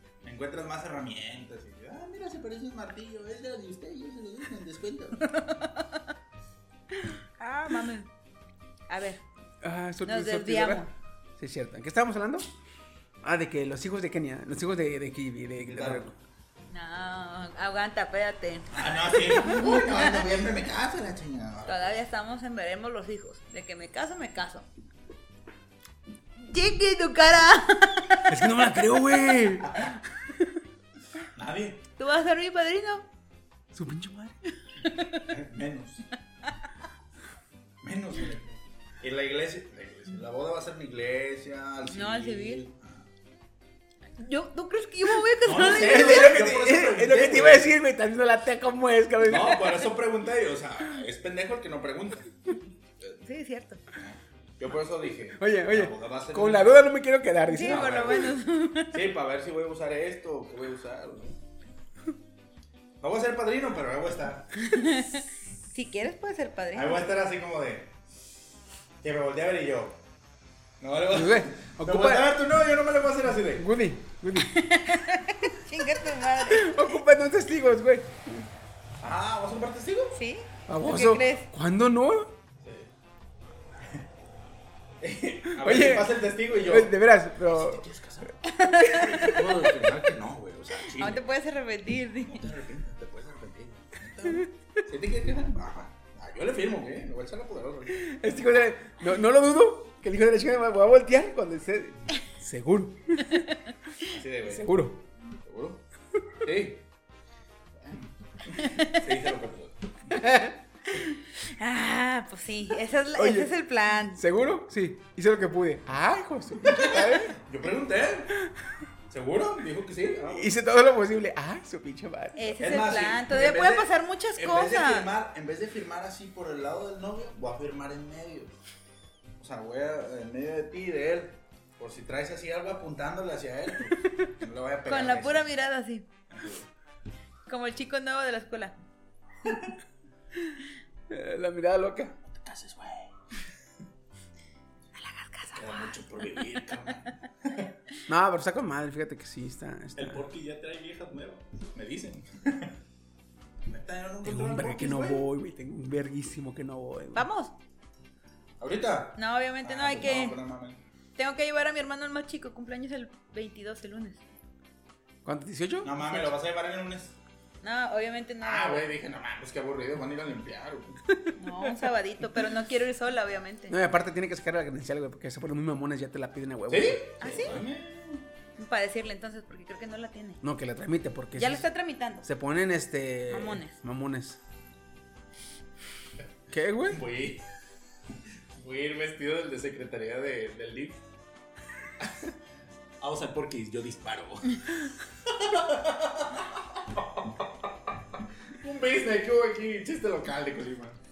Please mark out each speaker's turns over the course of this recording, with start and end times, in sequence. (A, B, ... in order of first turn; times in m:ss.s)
0:00.2-0:05.3 A
0:05.2-0:06.0 B
0:07.4-0:08.1 B
0:08.9-0:09.2 B
0:09.6-0:12.5 C
0:10.0-0:10.9 B
0:13.2-0:16.1 C
0:15.6-0:16.1 A
0:16.7-0:20.1 B
0:18.7-0:22.0 A
0:21.7-0:24.7 B
0:26.4-0:28.3 B
0:28.3-0:30.6 C
0:31.4-0:31.8 A
0:32.0-0:33.0 B
0:33.7-0:34.4 C
0:34.9-0:35.2 B
0:35.3-0:36.1 A
0:37.8-0:43.0 A
0:41.9-0:42.6 B
0:44.2-0:46.3 B
0:45.4-0:47.7 A
0:45.5-0:49.8 C
0:49.2-0:52.3 A
0:53.2-0:53.8 B
0:54.0-0:56.9 A
0:55.4-0:58.2 C
0:57.5-0:59.0 B
0:57.6-0:58.4 A
0:58.9-1:01.4 A
1:03.0-1:04.5 A
1:04.6-1:07.0 B
1:06.7-1:07.9 A
1:09.0-1:10.0 A
1:10.8-1:13.7 A
1:11.1-1:12.4 C
1:13.5-1:14.5 C
1:14.5-1:16.8 B
1:16.4-1:18.4 C
1:19.0-1:20.2 A
1:20.1-1:21.5 B
1:20.7-1:22.3 C
1:22.6-1:22.9 A
1:25.0-1:28.3 A
1:25.6-1:27.8 C
1:28.5-1:29.3 B
1:28.8-1:29.3 C
1:29.0-1:31.3 A
1:31.0-1:32.4 B
1:32.2-1:38.3 A
1:38.0-1:43.4 C
1:44.1-1:44.8 A
1:44.5-1:45.0 C
1:45.4-1:45.8 A
1:46.4-1:46.8 A
1:47.8-1:50.1 A
1:50.2-1:50.5 C
1:51.1-1:54.2 B
1:53.2-1:53.5 C
1:54.2-1:57.4 C
1:56.7-1:58.4 A
1:59.1-2:00.5 A
2:00.3-2:02.6 C
2:02.4-2:05.1 B
2:02.6-2:08.6 A
2:09.4-2:15.5 A
2:14.9-2:16.1 B
2:16.3-2:16.7 A
2:17.5-2:18.8 B
2:21.1-2:22.1 C
2:22.2-2:23.1 A
2:25.0-2:25.9 B
2:25.5-2:27.7 A
2:28.1-2:30.3 C
2:30.0-2:32.8 A
2:33.7-2:35.3 A
2:34.2-2:37.3 C
2:37.2-2:37.5 B
2:38.6-2:40.8 A
2:39.2-2:40.4 B
2:41.2-2:44.2 B
2:45.2-2:46.3 C
2:45.8-2:47.2 A
2:47.6-2:48.8 B
2:48.4-2:51.0 A
2:51.4-2:53.8 B
2:53.7-2:57.5 C
2:56.7-2:58.2 A
2:57.2-2:57.6 B
2:58.6-3:00.4 B
3:00.4-3:01.7 C
3:01.4-3:02.2 B
3:02.2-3:04.4 C
3:03.3-3:03.8 B
3:06.5-3:07.0 C
3:06.9-3:07.4 A
3:08.6-3:11.0 A
3:12.0-3:12.3 A
3:13.0-3:14.7 A
3:15.3-3:17.5 A
3:18.6-3:21.0 A